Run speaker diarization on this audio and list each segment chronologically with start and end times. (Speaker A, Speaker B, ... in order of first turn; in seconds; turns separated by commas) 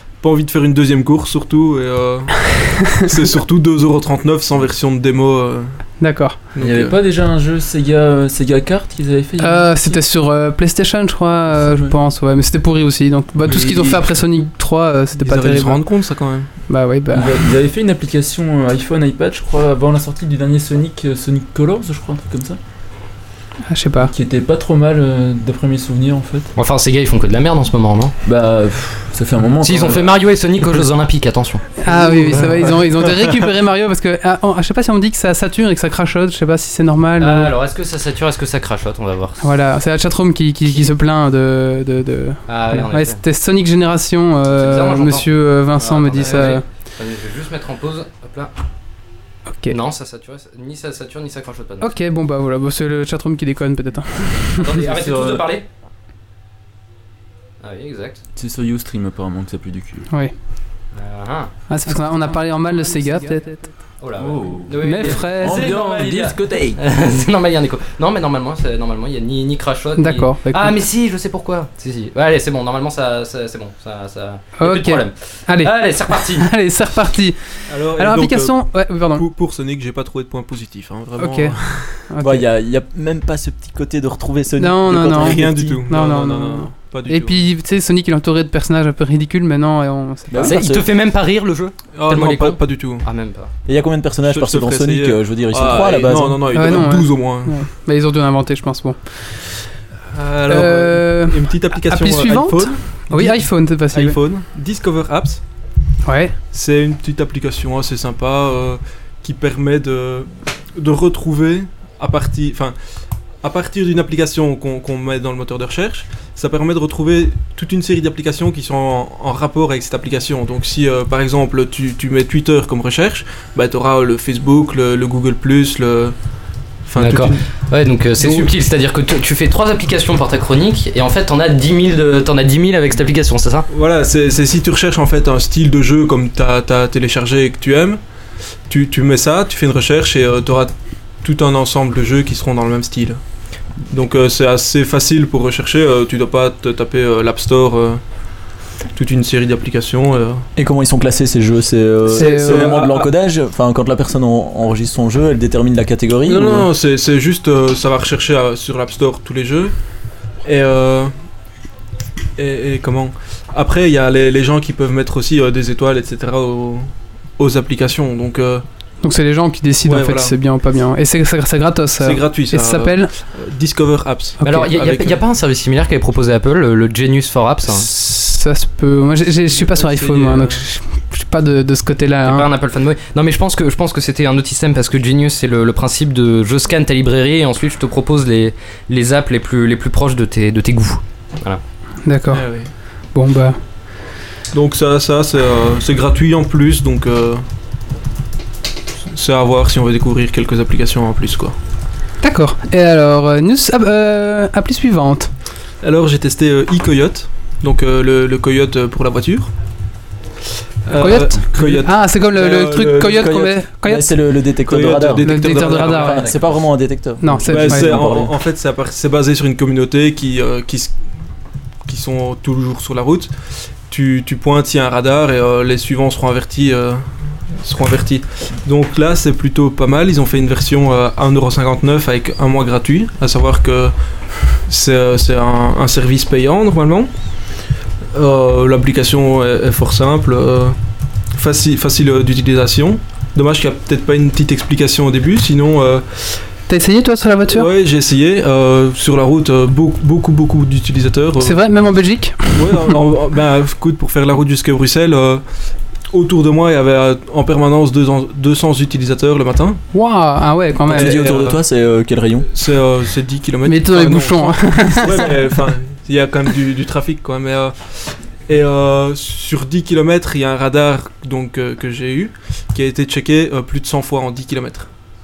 Speaker A: 0.2-6.0, Speaker B: 6.0-6.4, Speaker A: 6.5-7.0, Speaker C: 6.6-10.0, Speaker B: 9.4-15.8, Speaker C: 11.5-12.0, Speaker A: 13.4-14.1, Speaker A: 15.2-16.5, Speaker B: 16.7-17.4, Speaker C: 17.1-22.6, Speaker B: 23.7-24.1, Speaker C: 24.0-26.5, Speaker D: 26.6-28.1, Speaker C: 28.2-30.1, Speaker D: 29.6-31.6, Speaker B: 31.8-37.5, Speaker A: 32.0-33.3, Speaker D: 37.2-39.4, Speaker B: 39.4-46.6, Speaker D: 42.5-43.2, Speaker D: 44.5-48.5, Speaker B: 49.5-49.8, Speaker D: 49.7-52.0, Speaker B: 51.8-54.7, Speaker D: 54.6-55.6, Speaker C: 54.8-55.5, Speaker D: 57.6-58.2, Speaker C: 58.4-60.0, Speaker D: 60.9-61.5, Speaker B: 61.7-63.7, Speaker D: 64.0-76.5, Speaker C: 64.2-67.1, Speaker B: 64.8-65.7, Speaker B: 70.0-70.8, Speaker B: 74.6-79.2, Speaker A: 77.7-82.0, Speaker B: 81.2-82.5, Speaker E: 82.2-85.8, Speaker B: 84.6-90.6, Speaker A: 85.1-87.5, Speaker E: 90.3-90.9, Speaker D: 90.4-93.5, Speaker A: 92.0-93.1, Speaker E: 93.7-96.4, Speaker A: 94.2-97.7, Speaker B: 96.5-99.0, Speaker A: 100.1-105.4, Speaker B: 100.5-104.2, Speaker B: 106.0-106.3, Speaker A: 106.5-112.8, Speaker A: 113.4-126.2, Speaker A: 126.8-127.5, Speaker D: 127.0-133.7, Speaker A: 128.1-128.5, Speaker A: 133.7-138.0, Speaker A: 138.7-143.2, Speaker A: 143.9-148.0, Speaker A: 148.9-150.4, Speaker E: 150.6-156.7, Speaker B: 152.1-152.8, Speaker A: 152.1-153.1, Speaker A: 156.2-159.8, Speaker A: 160.4-161.1, Speaker A: 162.4-168.6, Speaker B: 169.0-173.1, Speaker A: 169.8-170.4, Speaker A: 172.0-175.2, Speaker D: 174.4-177.9, Speaker B: 177.7-182.5, Speaker A: 179.5-180.7, Speaker D: 182.2-191.6, Speaker B: 192.1-192.4, Speaker A: 192.3-192.7, Speaker B: 193.1-193.6, Speaker A: 194.5-197.4, Speaker A: 199.1-201.6, Speaker B: 202.2-205.3, Speaker A: 205.8-209.5, Speaker A: 210.9-213.5, Speaker B: 210.9-214.2, Speaker E: 213.2-218.3, Speaker A: 214.7-216.7, Speaker B: 215.2-216.3, Speaker B: 217.2-218.0, Speaker A: 217.4-221.0, Speaker A: 221.9-223.3, Speaker A: 223.9-233.9, Speaker A: 234.5-237.1, Speaker A: 238.1-240.8, Speaker A: 241.3-246.5, Speaker B: 246.7-247.7, Speaker A: 247.5-251.6, Speaker B: 251.4-252.9, Speaker A: 252.5-255.4, Speaker A: 256.1-259.8, Speaker B: 259.9-261.2, Speaker A: 260.9-261.6, Speaker E: 260.9-262.5, Speaker A: 262.5-274.9, Speaker B: 263.6-265.4